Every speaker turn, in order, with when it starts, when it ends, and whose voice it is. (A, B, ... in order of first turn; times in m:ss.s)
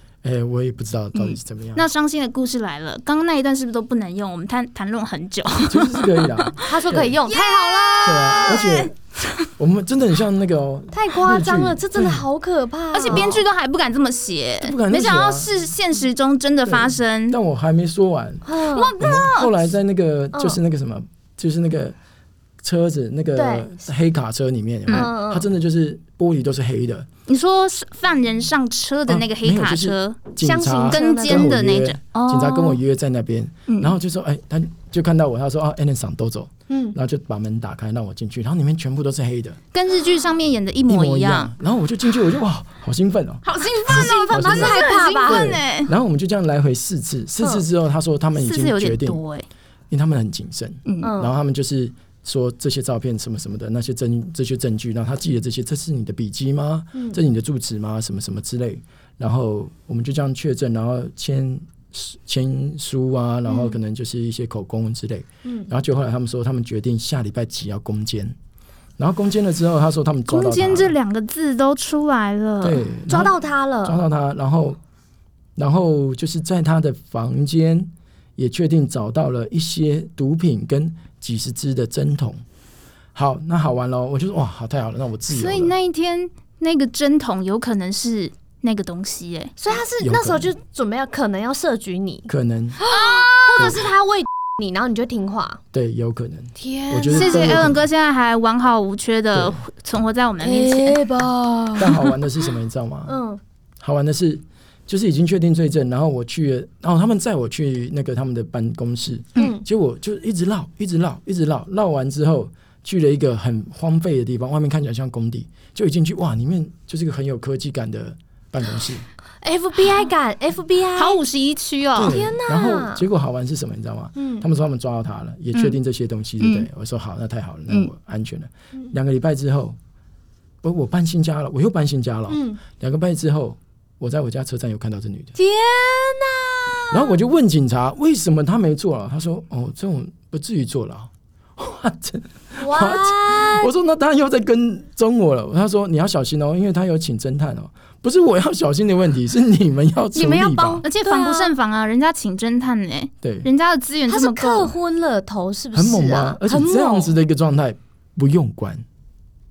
0:00.2-0:01.9 A
0:01.1-0:08.9 B
0:05.7-0:07.2 A
0:06.6-0:08.7 C
0:08.0-0:09.0 A
0:09.6-0:12.2 A
0:10.9-0:13.4 C
0:12.9-0:17.4 B
0:14.6-0:15.6 A
0:16.7-0:22.0 A
0:18.4-0:19.0 C
0:18.7-0:19.5 B
0:20.3-0:20.6 C
0:22.6-0:27.1 A
0:23.3-0:23.7 C
0:24.9-0:25.1 B
0:24.9-0:25.5 C
0:27.3-0:30.3 B
0:29.1-0:39.6 A
0:30.4-0:31.6 C
0:30.9-0:32.8 B
0:33.7-0:34.0 B
0:36.7-0:37.0 C
0:39.7-0:41.5 B
0:40.9-0:49.2 A
0:43.4-0:45.9 B
0:43.9-0:45.6 C
0:47.4-0:47.7 C
0:48.4-0:49.5 B
0:49.9-1:08.4 A
0:50.9-0:51.1 B
0:51.0-0:51.3 C
0:56.9-0:57.2 C
1:03.4-1:03.8 C
1:05.4-1:05.7 C
1:09.0-1:11.0 A
1:10.3-1:13.3 B
1:12.6-1:14.8 A
1:13.2-1:14.1 C
1:15.6-1:22.4 A
1:23.2-1:25.8 A
1:25.3-1:29.5 B
1:29.6-1:35.6 C
1:30.0-1:30.5 A
1:32.3-1:32.8 A
1:32.8-1:33.8 B
1:35.7-1:37.9 A
1:36.6-1:37.7 C
1:37.1-1:41.0 B
1:39.3-1:39.6 A
1:40.4-1:42.5 C
1:41.8-1:43.2 A
1:43.1-1:43.4 C
1:43.8-1:59.1 A
1:49.4-1:49.6 C
1:59.4-2:01.2 C
2:01.0-2:02.2 B
2:02.0-2:03.1 C
2:02.0-2:09.8 A
2:04.2-2:04.5 C
2:10.6-2:15.4 A
2:12.3-2:12.6 C
2:15.4-2:17.2 C
2:16.9-2:30.8 A
2:22.6-2:23.7 C
2:30.2-2:31.5 C
2:30.8-2:34.7 B
2:33.2-2:33.5 A
2:34.1-2:37.2 C
2:35.7-2:38.8 A